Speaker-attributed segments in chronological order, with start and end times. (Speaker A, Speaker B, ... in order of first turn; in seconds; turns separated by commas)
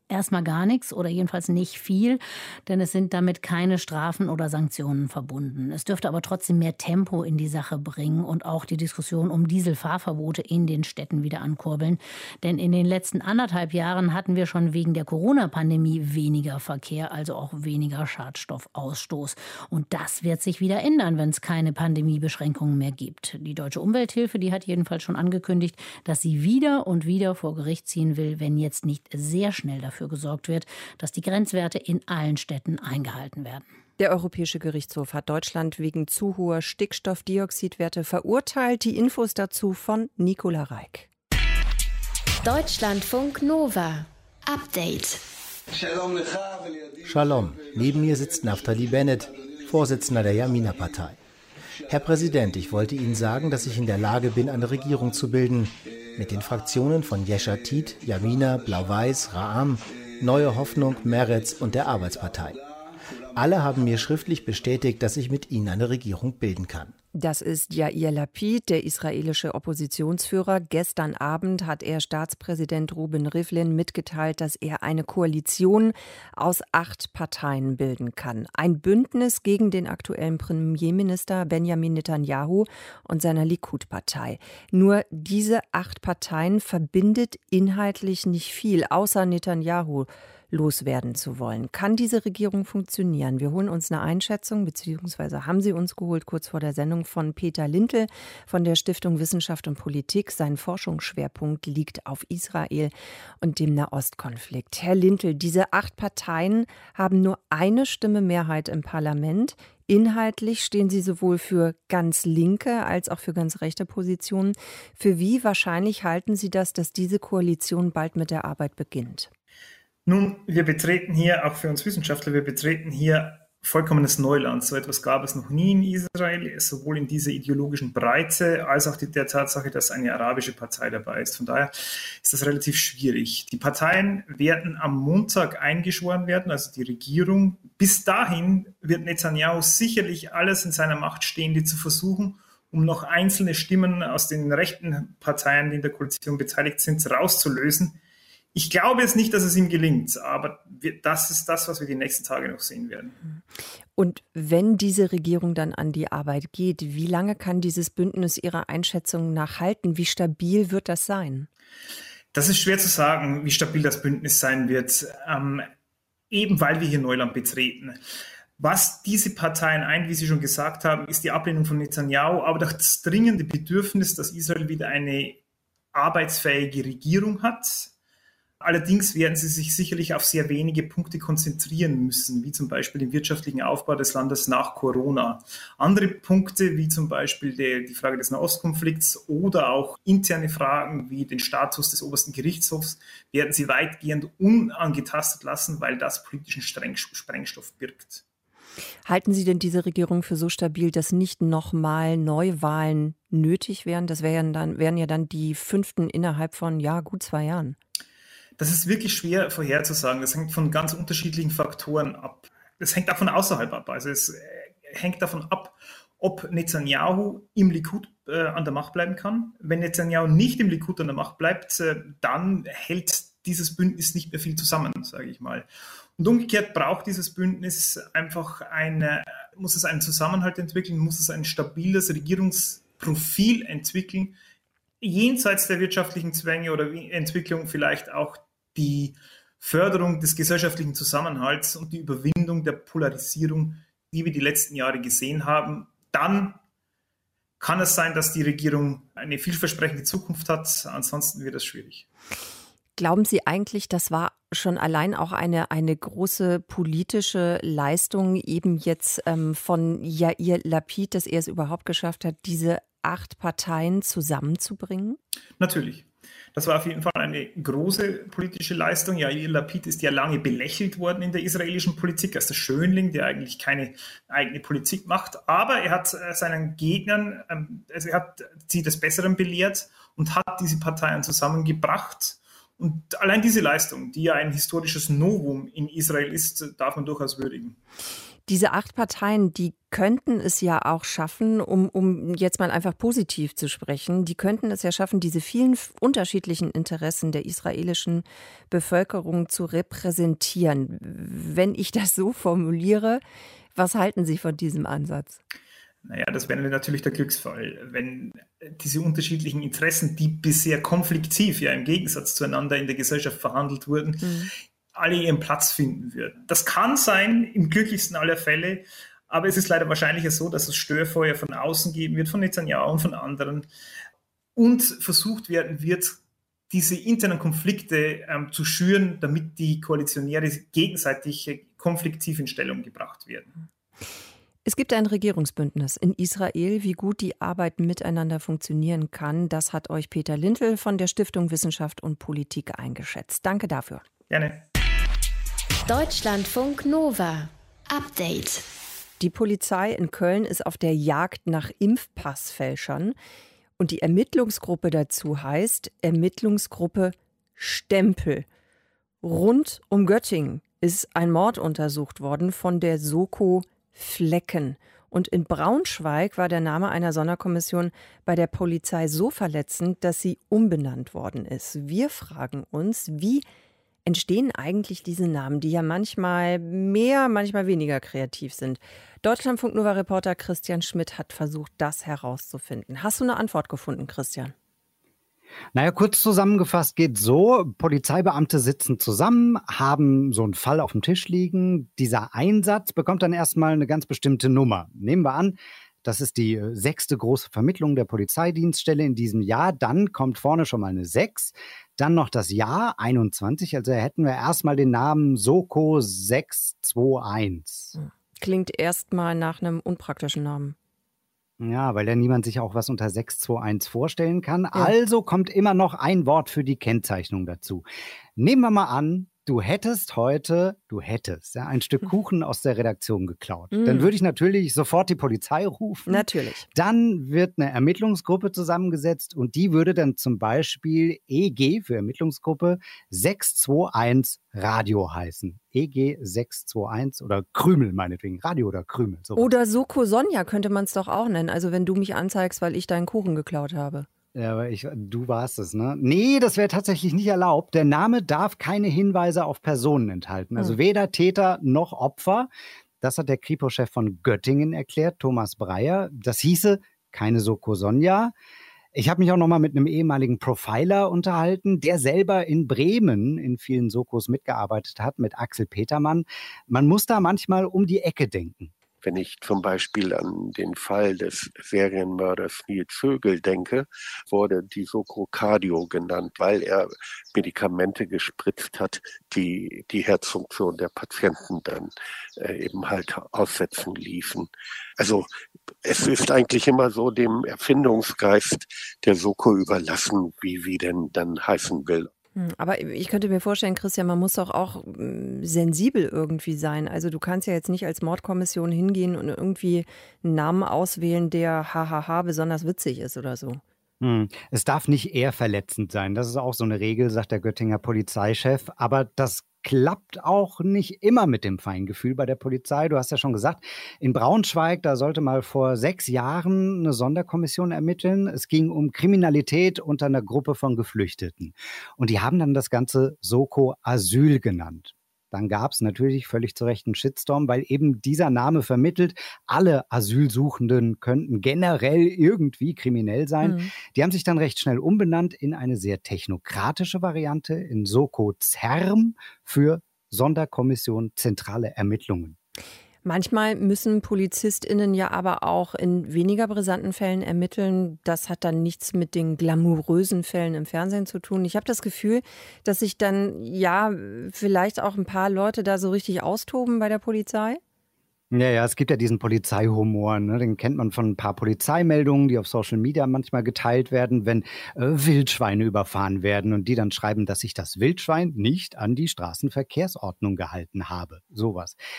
Speaker A: 0.1-33.7, Speaker B: 34.0-41.1, Speaker C: 42.4-45.2, Speaker D: 47.0-51.2, Speaker D: 51.9-62.6, Speaker D: 63.3-67.0, Speaker B: 67.2-119.3, Speaker E: 120.1-148.0, Speaker E: 148.5-153.2, Speaker B: 154.0-161.5, Speaker E: 162.3-165.7, Speaker E: 166.3-168.0, Speaker E: 168.6-175.4, Speaker E: 175.9-177.9, Speaker E: 178.6-198.2, Speaker B: 199.1-207.8, Speaker E: 208.6-234.4, Speaker E: 235.0-246.6, Speaker E: 247.6-252.1, Speaker B: 253.0-265.2, Speaker E: 265.6-287.8, Speaker B: 288.5-303.2, Speaker B: 303.8-305.4, Speaker E: 306.1-314.4, Speaker B: 314.2-314.5, Speaker E: 314.9-323.7, Speaker E: 324.6-326.2, Speaker E: 326.7-333.6, Speaker B: 334.6-344.0, Speaker E: 344.3-344.6, Speaker C: 345.9-348.6, Speaker B: 349.2-353.2, Speaker B: 353.8-358.5, Speaker B: 359.2-373.4, Speaker B: 374.1-384.5, Speaker F: 385.7-407.9, Speaker B: 407.9-410.8, Speaker F: 411.6-417.9, Speaker F: 418.4-439.5, Speaker B: 423.7-424.1, Speaker B: 426.1-426.7, Speaker B: 439.4-444.1, Speaker F: 444.4-452.5, Speaker F: 453.0-458.3, Speaker F: 458.9-468.7, Speaker G: 469.0-485.3, Speaker G: 485.8-492.1, Speaker B: 492.4-503.6, Speaker F: 504.0-542.4, Speaker B: 533.4-533.7, Speaker B: 543.0-557.6, Speaker F: 558.3-571.8